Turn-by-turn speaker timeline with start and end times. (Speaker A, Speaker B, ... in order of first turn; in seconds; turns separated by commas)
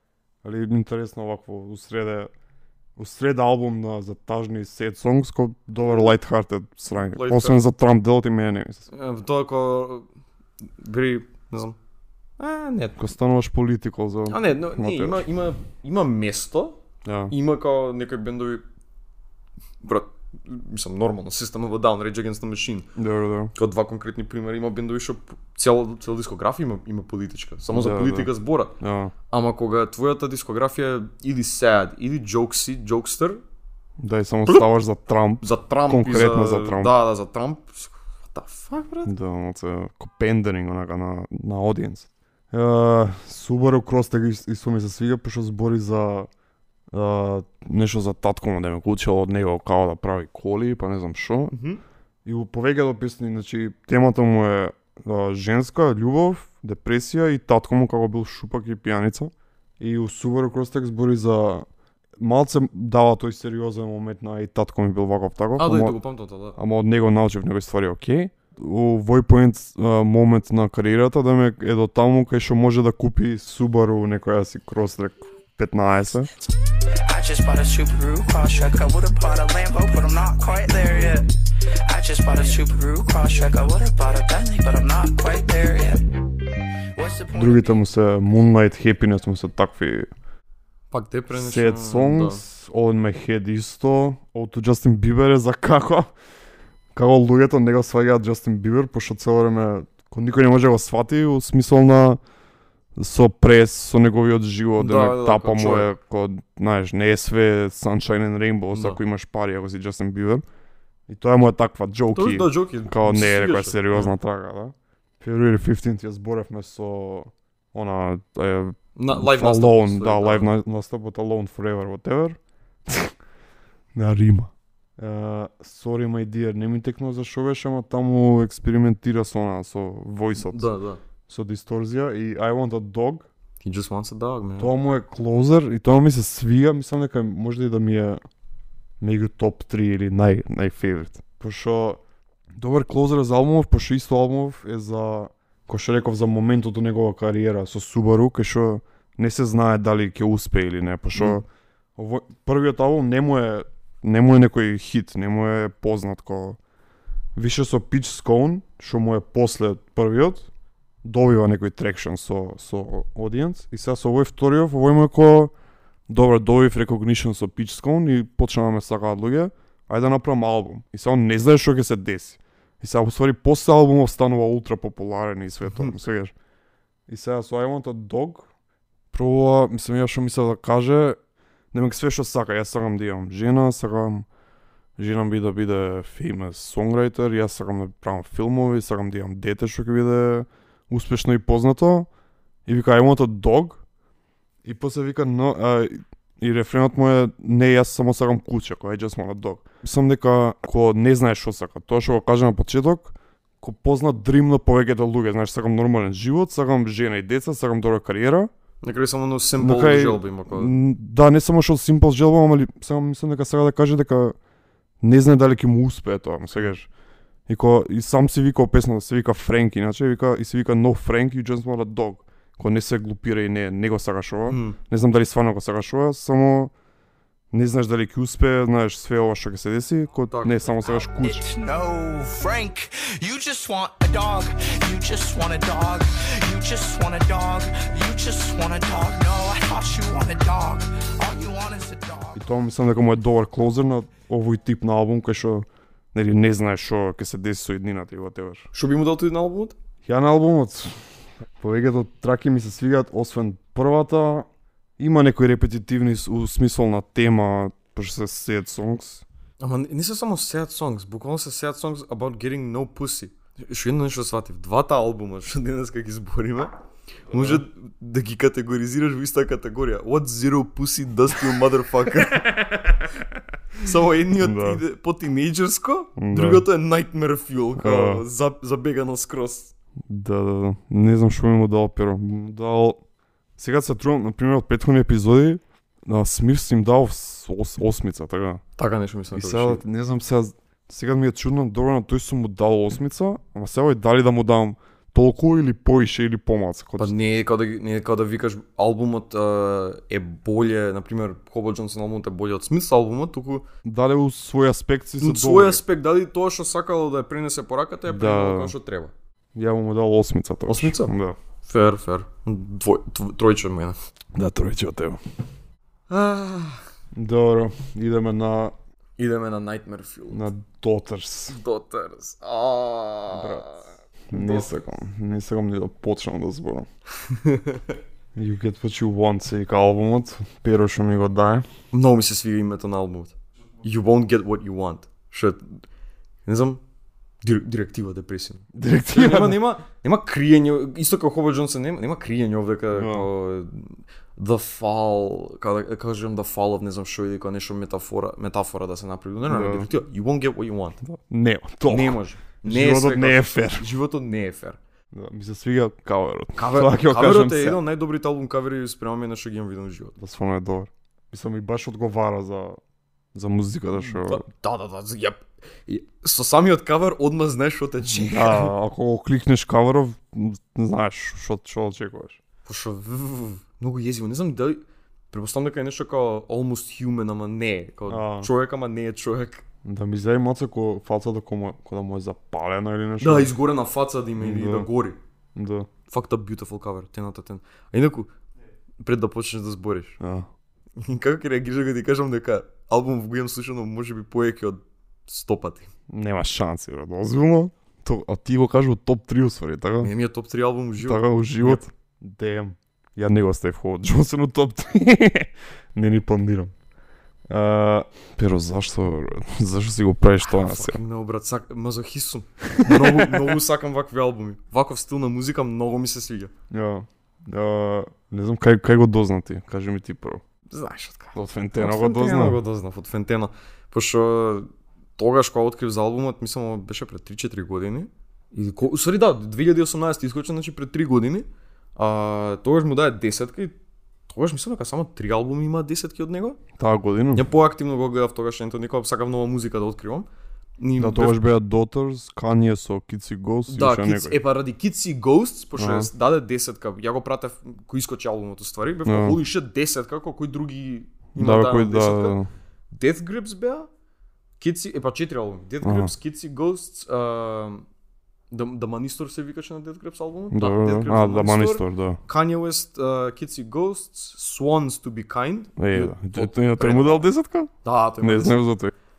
Speaker A: 0.4-2.3, Speaker A: 3.0-8.9, Speaker B: 7.1-7.6, Speaker B: 8.9-10.1, Speaker B: 10.8-11.8, Speaker B: 12.4-13.0, Speaker A: 13.0-15.3, Speaker B: 14.3-16.8, Speaker A: 17.0-17.3, Speaker B: 17.3-18.6, Speaker B: 19.8-22.9, Speaker A: 22.9-23.5, Speaker B: 23.5-28.7, Speaker A: 27.7-28.3, Speaker A: 28.8-29.1, Speaker B: 29.3-33.4, Speaker A: 34.0-36.9, Speaker B: 35.4-39.1, Speaker A: 39.0-46.3, Speaker A: 46.9-51.5, Speaker B: 51.5-51.8, Speaker A: 52.2-66.0, Speaker B: 65.6-66.6, Speaker A: 66.5-76.3, Speaker C: 77.1-81.3, Speaker C: 81.8-86.0, Speaker C: 86.9-87.8, Speaker A: 87.3-90.1, Speaker B: 90.9-92.4, Speaker A: 91.3-96.1, Speaker A: 96.9-102.2, Speaker A: 103.0-110.4, Speaker B: 104.8-105.9, Speaker B: 108.7-109.0, Speaker A: 111.1-123.1, Speaker B: 112.1-114.1, Speaker B: 119.0-120.5, Speaker A: 123.9-130.7, Speaker B: 130.4-131.0, Speaker A: 131.3-133.2, Speaker B: 133.6-134.7, Speaker A: 134.6-138.2, Speaker A: 139.0-142.0, Speaker A: 142.6-151.4, Speaker B: 151.2-151.4, Speaker A: 152.0-156.6, Speaker A: 157.3-160.5, Speaker A: 161.0-165.5, Speaker A: 166.1-176.3, Speaker A: 177.1-178.5, Speaker A: 179.1-181.2, Speaker A: 181.7-184.2, Speaker A: 185.0-192.1, Speaker A: 192.7-193.8, Speaker A: 194.6-208.5, Speaker B: 208.8-210.7, Speaker A: 209.6-214.3, Speaker A: 215.0-216.9, Speaker A: 217.5-226.7, Speaker B: 224.5-224.8, Speaker A: 227.5-231.5, Speaker B: 230.3-230.6, Speaker C: 230.8-242.4, Speaker A: 242.3-248.7, Speaker B: 248.7-249.8, Speaker A: 250.0-254.5, Speaker A: 255.0-259.2, Speaker B: 259.6-266.7, Speaker B: 267.3-273.1, Speaker A: 267.3-267.6, Speaker B: 273.8-279.7, Speaker A: 274.4-274.8, Speaker A: 276.2-276.6, Speaker A: 277.8-278.2, Speaker A: 280.1-283.0, Speaker A: 283.6-288.6, Speaker B: 288.8-289.8, Speaker A: 289.3-297.1, Speaker B: 297.0-303.6, Speaker A: 303.8-305.8, Speaker B: 305.2-309.1, Speaker A: 308.1-308.7, Speaker A: 309.5-311.4, Speaker B: 310.7-313.9, Speaker A: 314.3-315.2, Speaker B: 316.1-316.8, Speaker A: 317.1-318.7, Speaker B: 319.2-320.5, Speaker A: 320.3-321.6, Speaker B: 321.5-324.7, Speaker A: 323.3-323.7, Speaker A: 324.3-326.9, Speaker B: 327.3-327.9, Speaker A: 328.3-331.7, Speaker B: 331.9-335.8, Speaker B: 336.4-336.8, Speaker B: 337.4-351.0, Speaker A: 338.7-339.6, Speaker A: 342.9-343.3, Speaker A: 349.5-349.9, Speaker A: 351.0-353.9, Speaker B: 351.9-354.8, Speaker A: 355.1-357.8, Speaker B: 356.6-360.1, Speaker A: 360.2-362.8, Speaker A: 363.3-364.4, Speaker B: 364.0-368.7, Speaker A: 368.1-372.4, Speaker B: 372.6-379.6, Speaker A: 378.1-378.5, Speaker A: 379.8-383.5, Speaker B: 383.2-385.2, Speaker A: 384.4-384.9, Speaker A: 385.5-385.9, Speaker B: 386.1-388.3, Speaker B: 389.0-390.2, Speaker A: 390.2-390.5, Speaker B: 391.0-395.9, Speaker A: 396.1-400.1, Speaker B: 400.0-401.9, Speaker A: 401.0-406.7, Speaker A: 407.5-411.0, Speaker B: 410.5-416.5, Speaker A: 412.8-413.6, Speaker A: 416.7-420.4, Speaker B: 420.7-433.7, Speaker A: 421.3-422.6, Speaker B: 434.3-436.6, Speaker A: 436.8-437.4, Speaker B: 437.3-440.3, Speaker B: 440.8-441.4, Speaker A: 441.0-444.4, Speaker B: 443.7-452.4, Speaker A: 445.8-446.1, Speaker A: 449.0-449.4, Speaker A: 451.4-452.5, Speaker B: 452.9-453.9, Speaker B: 454.6-457.8, Speaker A: 455.8-456.1, Speaker B: 458.5-467.3, Speaker A: 460.5-462.2, Speaker A: 465.8-468.9, Speaker B: 467.8-468.6